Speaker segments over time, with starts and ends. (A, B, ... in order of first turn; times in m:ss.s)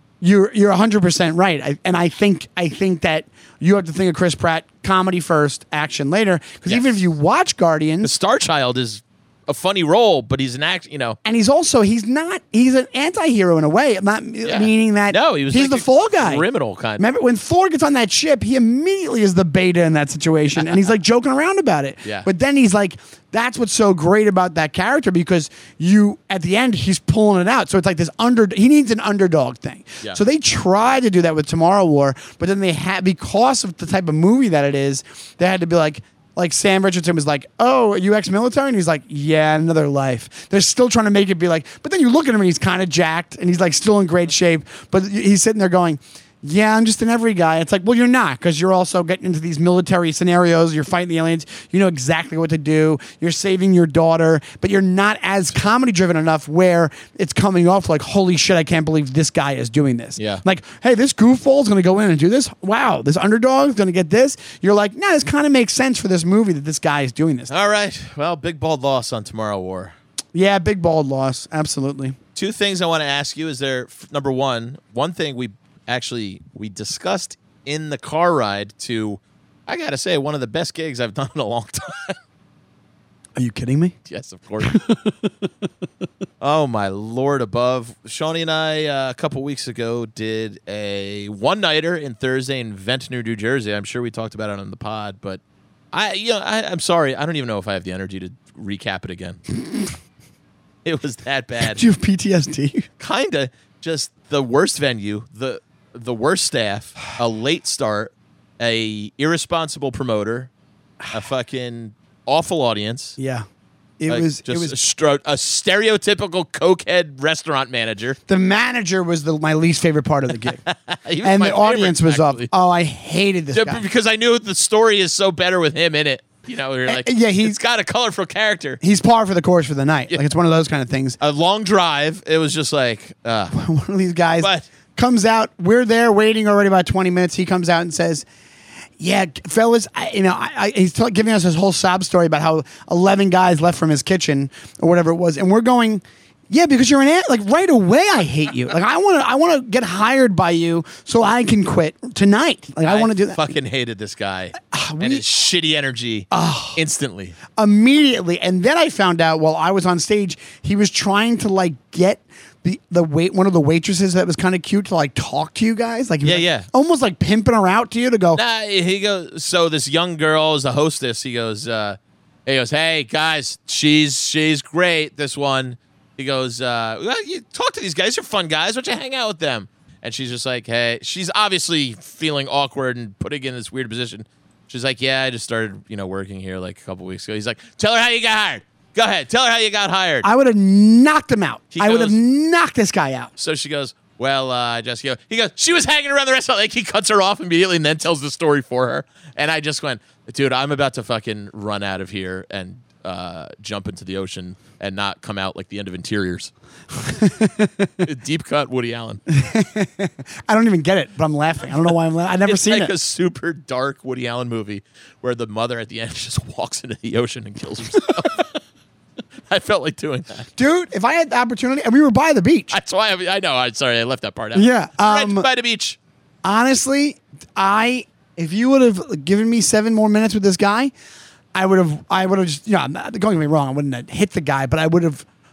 0:00.2-0:08.1 A
0:06.7-0:07.0 B
0:08.0-0:11.2 B
0:11.2-0:16.4 A
0:14.4-0:17.0 B
0:17.0-1:07.5 A
1:00.2-1:00.4 B
1:07.5-1:09.9 B
1:10.3-1:12.2 A
1:12.3-1:22.2 B
1:23.4-1:24.0 A
1:24.0-1:24.8 B
1:24.6-1:25.3 A
1:26.4-1:35.4 B
1:35.9-1:39.4 B
1:40.8-1:41.8 B
1:41.6-1:42.9 A
1:43.0-1:50.5 B
1:51.1-1:53.2 B
1:53.2-1:53.4 A
1:54.0-1:54.8 A
1:54.1-1:58.2 B
1:58.3-2:00.6 A
2:00.6-2:02.5 B
2:01.2-2:03.8 A
2:03.5-2:08.8 B
2:06.8-2:07.6 A
2:08.8-2:11.2 A
2:11.2-2:13.6 B
2:13.5-2:18.2 A
2:14.4-2:14.6 B
2:19.0-2:33.5 A
2:32.8-2:37.4 B
2:34.7-2:35.2 A
2:36.3-2:36.8 A
2:37.5-2:48.4 A
2:46.2-2:46.7 B
2:48.3-3:10.2 B
3:10.2-3:13.3 A
3:11.7-3:12.2 B
3:13.4-3:26.5 B
3:27.0-3:28.0 A
3:28.0-3:29.2 B
3:29.3-3:32.9 A
3:32.4-3:38.5 B
3:39.5-3:40.5 B
3:40.6-3:42.8 A
3:42.7-3:46.0 B
3:44.5-3:45.5 A
3:46.4-3:50.9 A
3:51.5-3:55.2 A